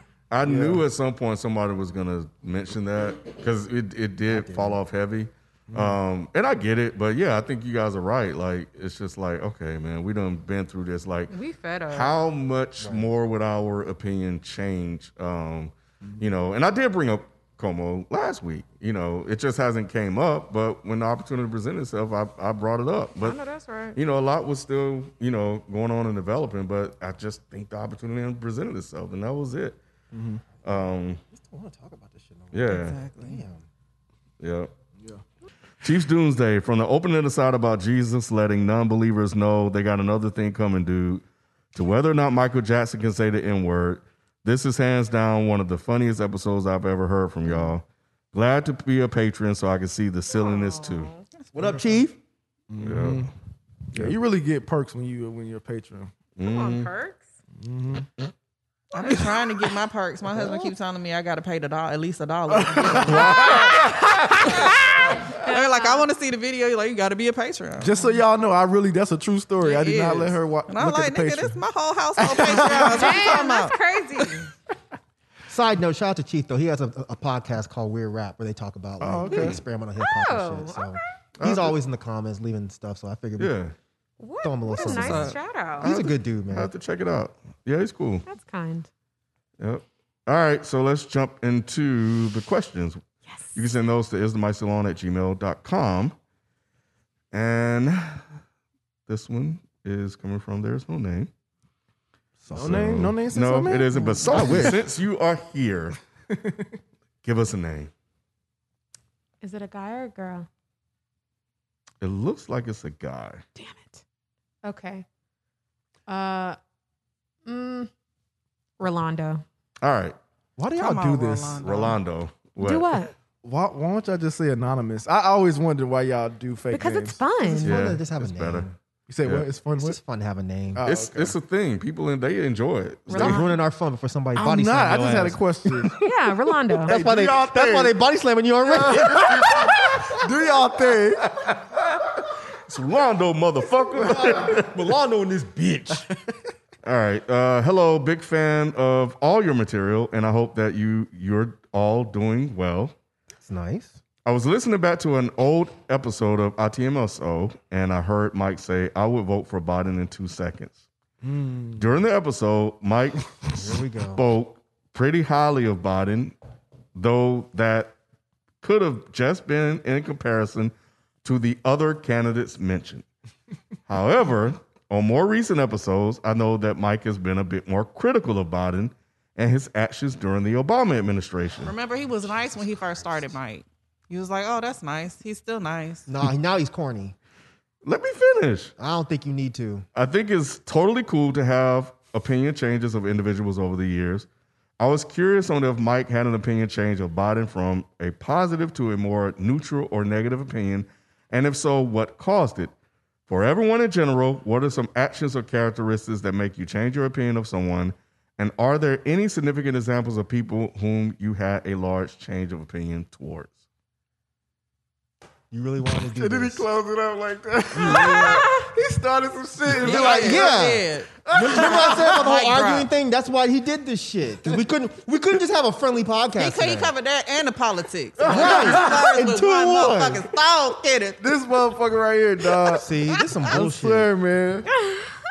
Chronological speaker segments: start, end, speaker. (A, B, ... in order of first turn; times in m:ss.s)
0:00.3-0:11.3 A
0:00.4-0:00.8 B
0:04.3-0:04.8 C
0:05.7-0:06.0 B
0:11.3-0:12.2 D
0:11.9-0:23.4 A
0:12.8-0:13.1 C
0:23.2-0:24.0 D
0:23.9-0:29.8 A
0:30.1-0:30.4 B
0:30.6-0:31.2 A
0:31.3-0:33.6 C
0:32.5-0:33.0 A
0:32.7-0:33.4 E
0:34.4-0:34.7 A
0:35.8-0:41.2 A
0:41.7-0:51.1 A
0:50.3-0:51.2 D
0:51.5-0:52.2 C
0:52.7-0:53.3 B
0:52.8-0:53.3 A
0:53.9-0:56.1 B
0:56.4-0:56.9 A
0:56.4-0:57.2 D
0:57.6-0:58.1 B
0:58.9-1:08.0 E
1:00.3-1:00.7 B
1:02.5-1:04.8 B
1:03.0-1:03.8 A
1:05.4-1:06.1 D
1:07.8-1:11.6 B
1:09.6-1:13.8 E
1:12.2-1:13.3 B
1:12.9-1:14.5 D
1:15.5-1:23.5 C
1:19.0-1:19.6 B
1:19.4-1:21.0 D
1:21.4-1:21.7 A
1:23.4-1:23.7 A
1:24.2-1:25.9 D
1:24.4-1:26.7 C
1:24.8-1:25.4 E
1:25.8-1:28.2 A
1:28.3-1:28.9 D
1:29.6-1:33.0 A
1:33.3-1:33.6 D
1:33.5-1:36.1 A
1:37.3-1:38.2 A
1:39.1-1:41.3 A
1:42.4-1:44.8 B
1:42.5-1:46.0 A
1:44.3-1:44.8 C
1:46.3-1:46.7 B
1:47.2-1:47.9 A
1:49.4-1:50.5 D
1:52.0-1:53.4 A
1:53.6-1:54.0 D
1:54.6-1:55.0 D
1:56.1-1:56.6 D
1:57.4-1:57.9 D
1:58.8-1:59.4 D
1:59.8-2:00.2 A
2:00.7-2:02.0 E
2:00.8-2:01.5 B
2:00.9-2:01.2 C
2:01.6-2:03.0 A
2:02.6-2:03.1 D
2:03.4-2:07.3 B
2:06.7-2:07.8 D
2:07.5-2:08.7 C
2:07.6-2:08.7 A
2:09.1-2:10.0 B
2:09.6-2:10.9 C
2:10.7-2:11.3 B
2:10.9-2:13.4 A
2:13.1-2:13.6 D
2:13.1-2:15.8 C
2:14.3-2:16.0 B
2:16.0-2:16.9 D
2:16.8-2:17.9 B
2:16.9-2:19.7 C
2:18.7-2:21.3 B
2:22.7-2:24.7 A
2:24.0-2:26.1 C
2:26.8-2:32.9 A
2:33.3-2:34.0 C
2:34.2-2:40.8 A
2:41.2-2:41.9 B
2:41.8-2:46.3 A
2:43.5-2:44.2 C
2:46.9-2:47.9 A
2:48.6-2:50.7 A
2:51.2-2:53.0 A
2:53.9-3:01.7 A
3:01.6-3:06.1 E
3:02.3-3:03.3 C
3:06.1-3:07.2 C
3:07.8-3:08.7 A
3:08.8-3:09.8 C
3:09.9-3:14.3 A
3:14.8-3:22.7 A
3:23.3-3:33.6 A
3:35.5-3:36.6 C
3:36.1-3:40.7 B
3:37.7-3:38.3 C
3:37.8-3:38.7 D
3:39.8-3:42.9 E
3:39.8-3:46.9 C
3:41.2-3:42.2 B
3:46.4-3:51.2 E
3:48.2-3:49.0 B
3:48.2-3:50.2 C
3:51.2-3:52.8 B
3:52.7-3:54.1 C
3:53.4-3:54.7 B
3:54.8-3:55.1 D